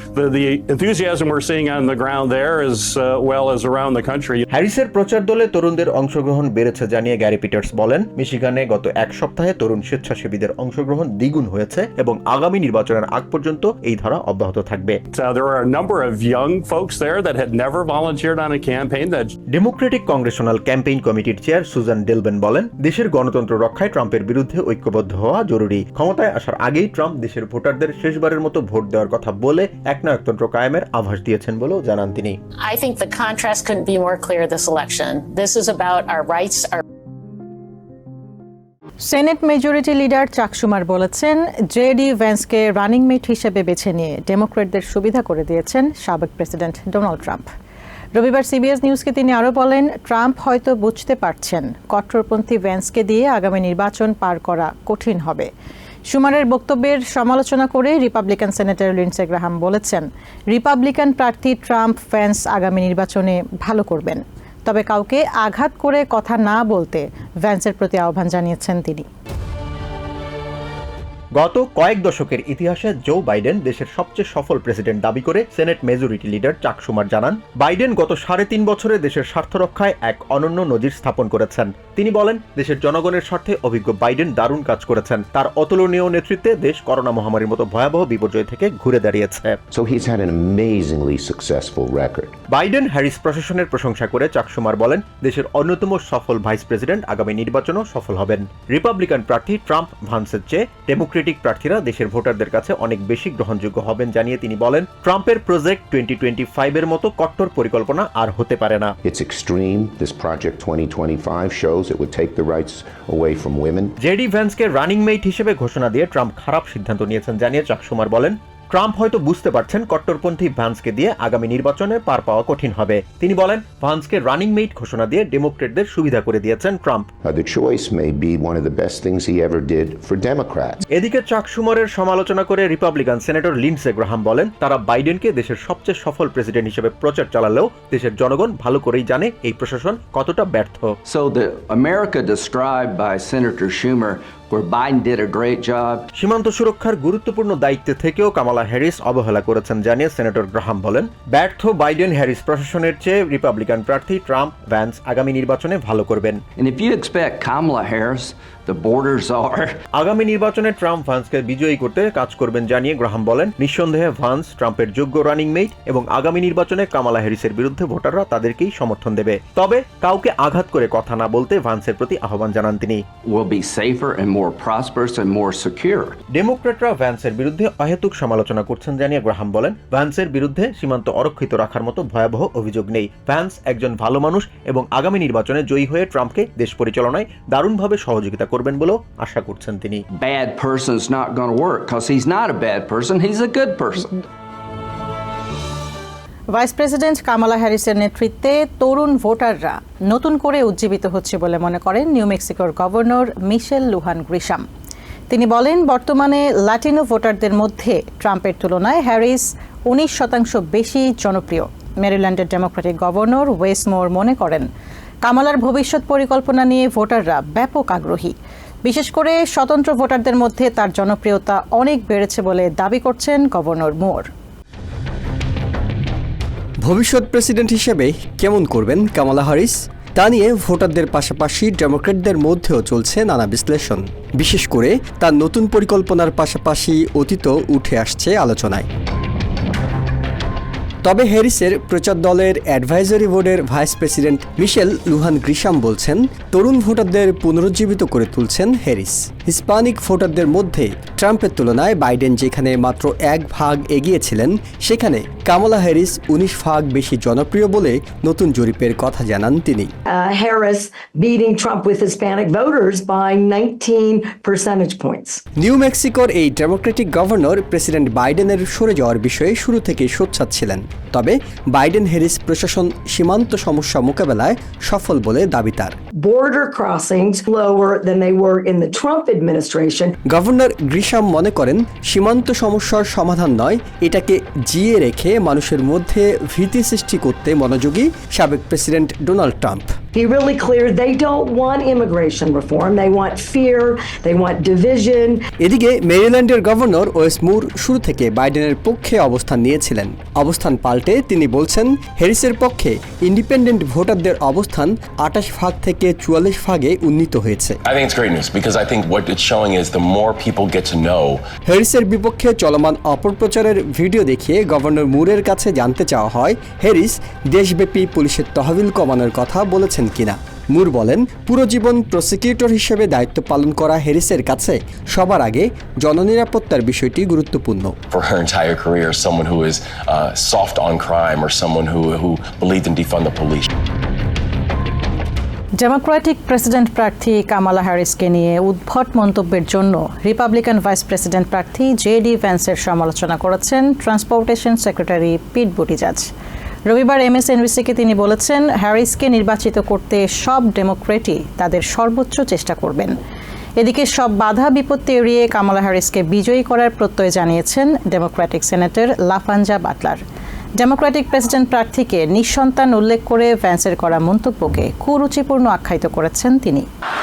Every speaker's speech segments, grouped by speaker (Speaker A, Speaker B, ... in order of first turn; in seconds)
Speaker A: 0.2-4.4, 15.1-19.3
Speaker B: 4.5-15.0, 19.6-32.4, 71.4-89.6, 92.5-108.9, 114.0-127.1, 130.9-141.0, 146.2-156.4, 160.0-173.0, 176.4-190.0
Speaker C: 32.7-34.8, 35.4-36.1
Speaker D: 39.0-47.4, 48.2-55.5, 56.1-69.0, 196.6-204.6, 205.3-214.7, 215.2-218.3, 218.8-224.2, 335.8-346.3, 346.9-353.1, 353.8-360.2, 360.8-366.9
Speaker E: 89.8-92.3, 109.0-113.9, 127.2-130.8
Speaker F: 141.1-146.1, 156.6-159.7, 173.3-176.2, 190.2-194.1
Speaker G: 226.8-238.9, 241.0-259.9, 265.6-276.0, 280.3-290.0, 295.6-307.8, 311.6-327.9
Speaker H: 260.1-265.4, 276.2-280.1, 290.1-295.4
Speaker I: 307.9-311.4, 328.1-333.7